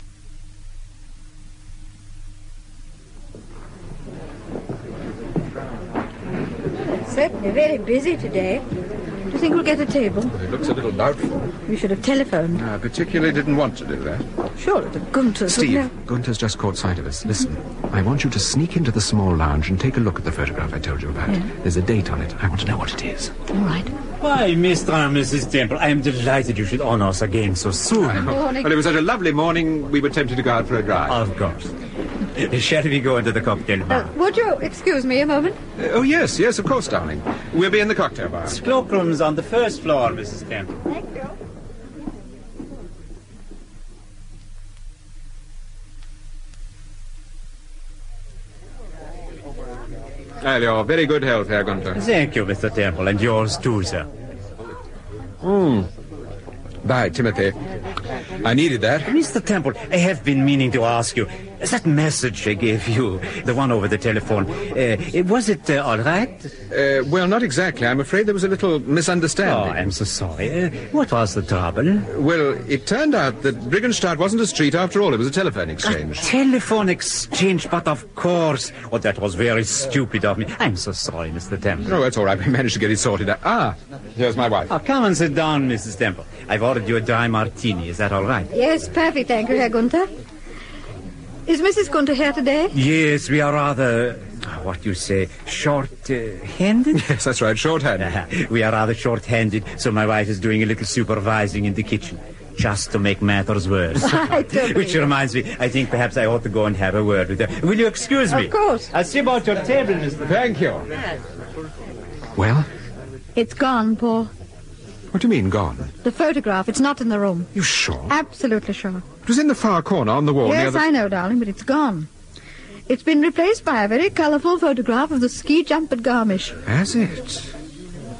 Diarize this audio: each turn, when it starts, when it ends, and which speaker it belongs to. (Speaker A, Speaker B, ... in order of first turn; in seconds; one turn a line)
Speaker A: 6.8-8.6
Speaker A: 9.3-10.3
Speaker B: 10.3-11.4
Speaker A: 11.7-12.6
Speaker B: 12.5-14.2
Speaker A: 14.6-15.9
Speaker B: 15.5-23.3
Speaker A: 23.5-23.9
Speaker C: 24.2-28.3
Speaker B: 28.0-31.2
Speaker A: 28.2-28.7
Speaker C: 31.1-31.7
Speaker C: 32.3-34.1
Speaker A: 33.9-35.6
Speaker B: 35.8-38.5
Speaker C: 38.5-40.8
Speaker A: 40.9-41.3
Speaker B: 50.4-52.0
Speaker C: 51.9-54.1
Speaker B: 55.4-55.9
Speaker B: 56.8-57.6
Speaker B: 58.4-59.1
Speaker C: 59.0-66.5
Speaker B: 66.7-69.9
Speaker C: 69.4-72.1
Speaker B: 72.1-76.2
Speaker C: 75.8-81.9
Speaker B: 81.8-84.7
Speaker C: 84.7-88.5
Speaker A: 88.5-90.1
Speaker A: 91.5-92.8
Speaker C: 92.7-97.0
Speaker B: 96.9-98.1
Speaker C: 98.0-110.2
Speaker A: 104.0-105.0
Speaker A: 108.3-108.9
Speaker B: 110.2-110.9
Speaker B: 112.3-112.7
Speaker A: 113.3-114.3
Speaker B: 115.1-115.9
Speaker A: 116.0-117.5
Speaker B: 117.5-118.1
Speaker A: 118.1-119.0
Speaker B: 119.2-120.9
Speaker A: 120.4-122.1
Speaker A: 122.9-126.6
Speaker B: 126.7-127.5